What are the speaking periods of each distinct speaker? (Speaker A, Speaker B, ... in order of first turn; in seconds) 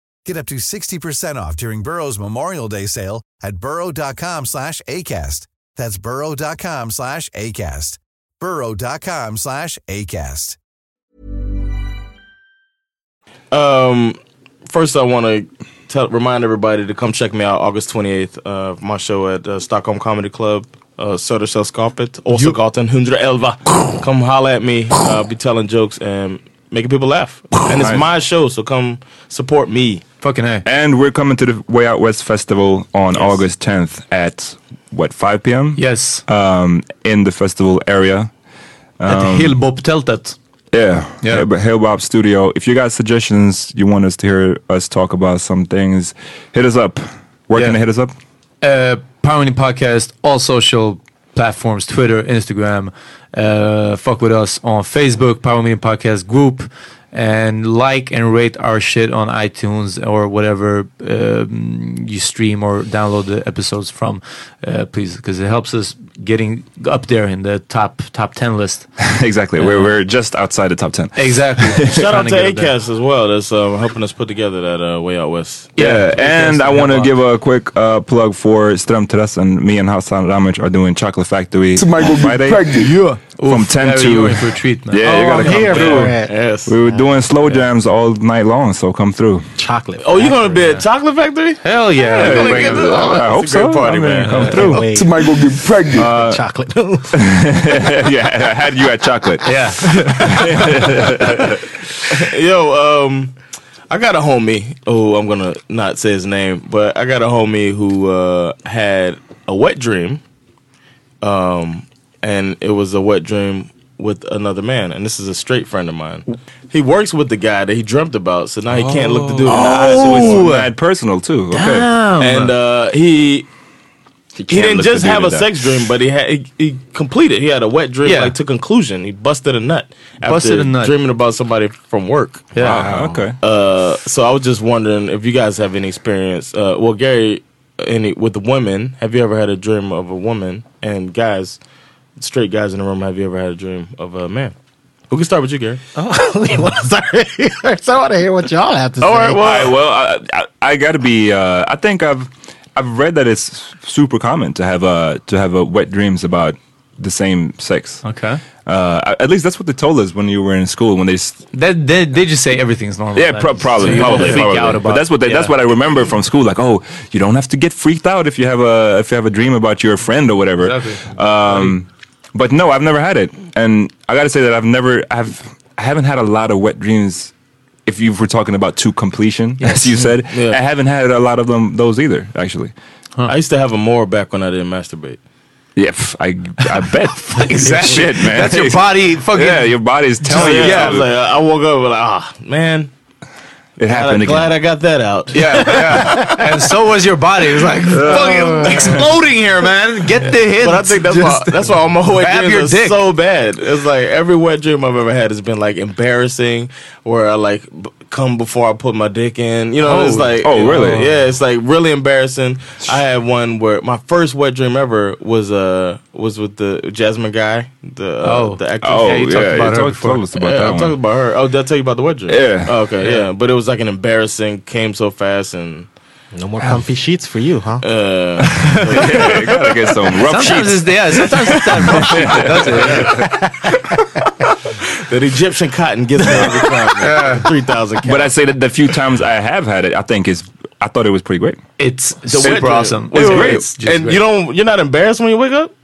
Speaker A: 0.2-10.6
Speaker B: 13.5-30.0, 71.8-75.7, 85.4-86.7, 90.0-94.6, 101.2-101.5, 102.1-103.3, 103.9-110.2, 111.2-120.5, 122.2-123.5, 124.5-141.6, 142.2-144.5, 145.1-145.8, 149.0-149.7, 163.8-164.5, 180.3-180.6, 183.3-185.2, 190.3-192.9, 193.8-196.1, 198.4-198.8, 200.6-219.6, 220.3-225.9, 227.8-229.7, 235.0-238.3, 242.3-245.7
Speaker C: 27.8-28.1, 30.6-38.3, 39.0-39.6, 40.7-48.1, 69.0-72.0, 75.8-82.7, 83.4-89.5, 92.1-94.9, 96.0-96.4, 97.2-99.5, 100.0-101.6, 118.7-121.9, 124.3-125.5, 132.6-133.3, 149.4-158.0, 158.6-161.4, 163.1-177.3, 177.8-182.7, 185.8-191.1, 193.8-194.6, 197.9-199.0, 210.4-211.1, 218.8-221.0, 222.3-222.7, 228.9-233.2, 238.0-241.6, 242.4-243.6
Speaker D: 30.2-30.6, 35.8-36.2, 39.1-40.4, 41.2-41.5, 48.6-68.9, 69.6-69.9, 71.1-72.7, 75.8-77.2, 82.8-86.0, 91.6-93.0, 94.2-94.8, 99.4-100.2, 119.5-120.7, 121.5-122.5, 128.0-128.3, 130.2-130.9, 132.5-132.8, 158.0-158.4, 161.5-165.5, 170.6-171.8, 179.6-180.1, 187.3-191.0, 195.3-203.0, 209.8-211.1, 218.2-220.2, 230.2-233.1, 237.0-237.4, 241.8-244.2
Speaker E: 81.7-82.9, 94.9-96.1
Speaker F: 85.0-86.3, 86.8-87.1, 89.6-90.7, 94.5-95.1, 96.0-97.3, 145.9-149.7, 198.2-198.7, 226.3-227.8, 233.1-234.2